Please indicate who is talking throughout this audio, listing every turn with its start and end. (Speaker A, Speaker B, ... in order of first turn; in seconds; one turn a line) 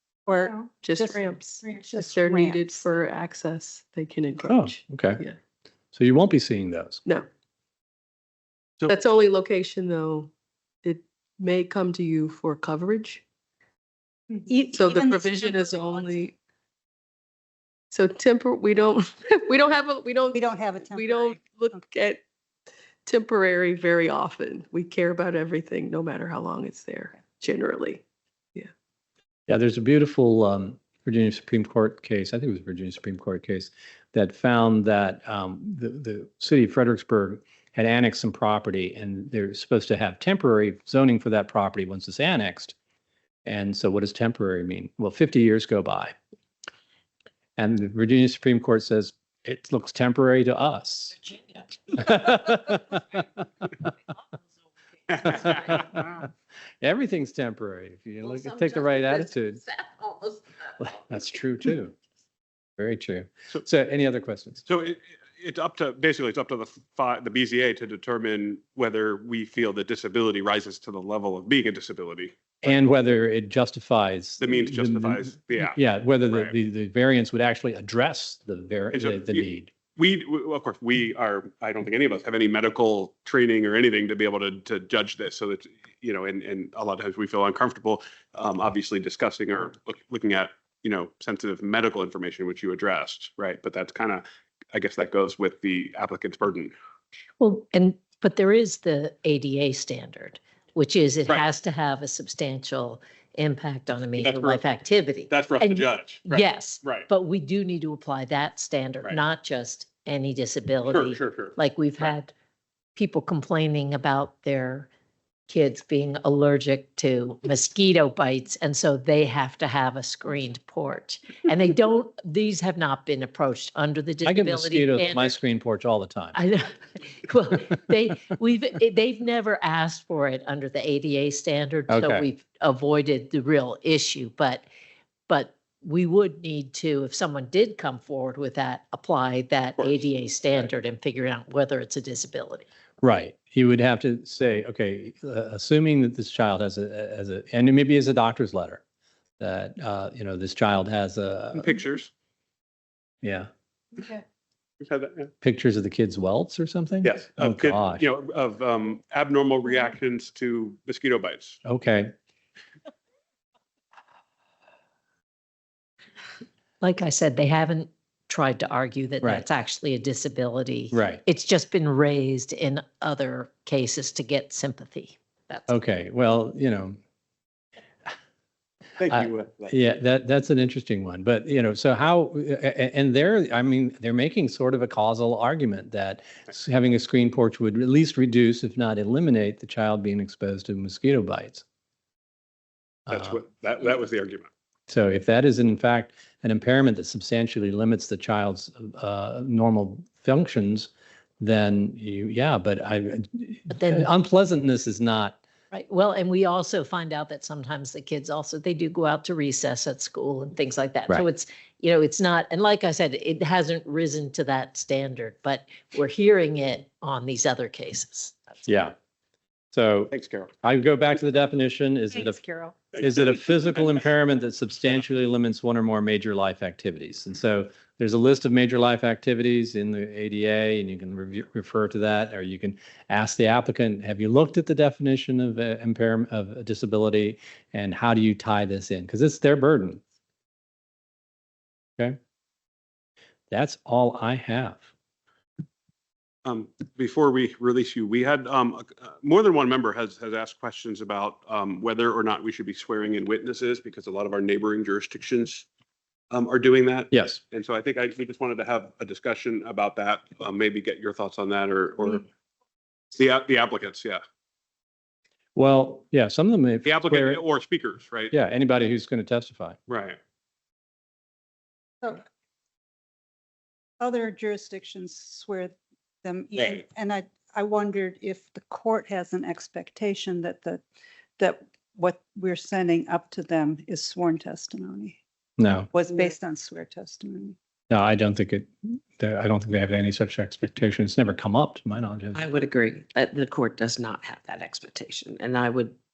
Speaker A: 0.2-2.8
Speaker B: 0.7-5.3
Speaker C: 4.4-5.2
Speaker C: 5.9-7.0
Speaker B: 8.8-10.3
Speaker B: 10.8-13.2
Speaker A: 14.3-16.1
Speaker B: 14.5-16.3
Speaker B: 17.9-22.2
Speaker A: 20.3-21.9
Speaker B: 23.1-28.0
Speaker C: 29.5-42.7
Speaker C: 43.4-46.1
Speaker C: 47.6-51.2
Speaker C: 51.9-53.2
Speaker D: 55.1-55.7
Speaker C: 55.2-56.2
Speaker C: 56.8-59.6
Speaker C: 60.8-61.9
Speaker C: 62.8-64.6
Speaker D: 64.7-72.7
Speaker C: 72.6-79.7
Speaker D: 74.4-75.8
Speaker D: 78.9-96.7
Speaker E: 97.4-112.3
Speaker D: 104.2-104.6
Speaker D: 105.3-107.1
Speaker D: 110.9-111.5
Speaker E: 112.9-114.9
Speaker E: 115.5-125.3
Speaker C: 124.2-126.4
Speaker E: 126.3-134.7
Speaker C: 131.9-132.2
Speaker E: 135.3-142.7
Speaker D: 139.8-140.0
Speaker C: 143.0-148.8
Speaker C: 149.4-151.8
Speaker D: 151.5-152.1
Speaker C: 153.2-153.5
Speaker D: 154.8-155.3
Speaker C: 155.4-158.0
Speaker D: 157.0-161.6
Speaker C: 161.6-162.1
Speaker E: 166.8-175.7
Speaker C: 170.9-171.2
Speaker C: 175.7-177.0
Speaker D: 179.0-179.7
Speaker C: 179.1-191.6
Speaker C: 193.1-193.4
Speaker D: 193.1-194.5
Speaker C: 194.9-205.4
Speaker E: 203.7-204.1
Speaker E: 205.7-218.3
Speaker C: 218.7-218.9
Speaker C: 219.7-220.1
Speaker D: 220.1-220.5
Speaker C: 220.6-240.0
Speaker A: 222.4-222.7
Speaker C: 243.5-244.8
Speaker D: 246.4-255.7
Speaker D: 256.3-262.2
Speaker C: 257.1-257.4
Speaker D: 263.1-264.2
Speaker C: 265.6-267.4
Speaker D: 266.8-268.3
Speaker C: 268.3-269.8
Speaker D: 269.9-270.2
Speaker A: 274.0-280.8
Speaker A: 281.4-285.2
Speaker C: 285.6-285.9
Speaker A: 285.9-287.6
Speaker C: 287.9-292.4
Speaker F: 292.3-296.0